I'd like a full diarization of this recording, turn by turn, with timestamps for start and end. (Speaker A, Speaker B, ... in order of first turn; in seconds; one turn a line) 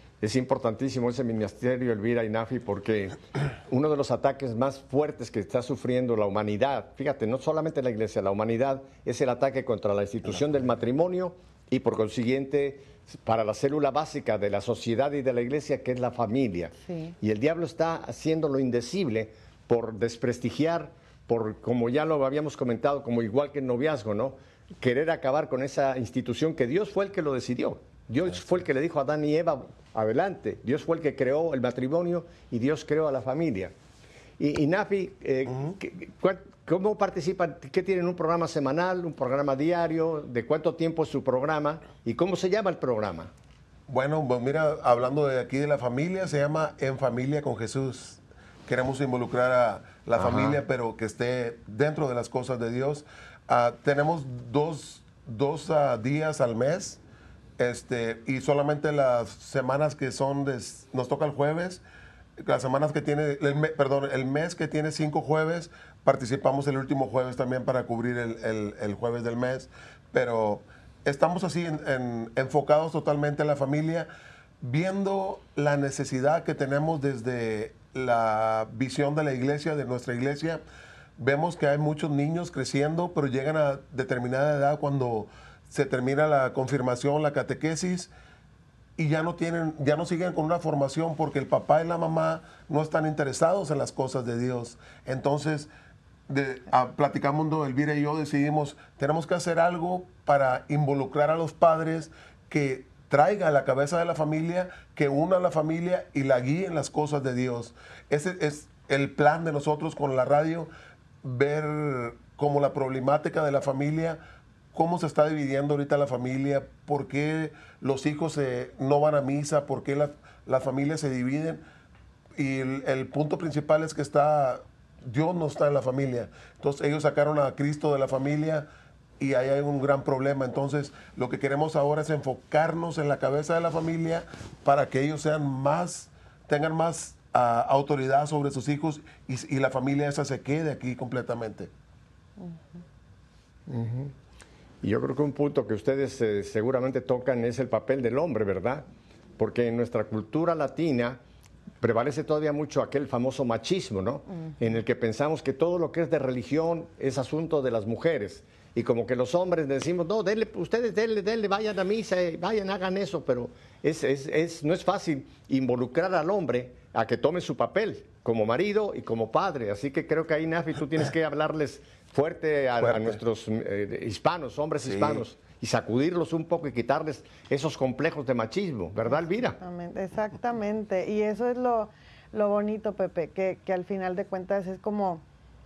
Speaker A: 0.2-33.7
Speaker B: 16.8-17.1
Speaker A: 34.4-43.3
Speaker C: 43.9-57.0
Speaker A: 50.2-50.6
Speaker C: 57.6-61.8
Speaker C: 62.4-74.1
Speaker C: 74.6-80.6
Speaker C: 81.2-88.1
Speaker C: 89.0-95.7
Speaker C: 96.3-110.7
Speaker C: 111.2-114.2
Speaker C: 114.7-121.6
Speaker C: 122.4-128.7
Speaker C: 129.2-141.7
Speaker A: 143.7-144.1
Speaker A: 144.8-148.8
Speaker A: 149.4-151.2
Speaker A: 151.8-179.6
Speaker C: 172.8-173.2
Speaker C: 174.8-175.2
Speaker B: 179.6-185.2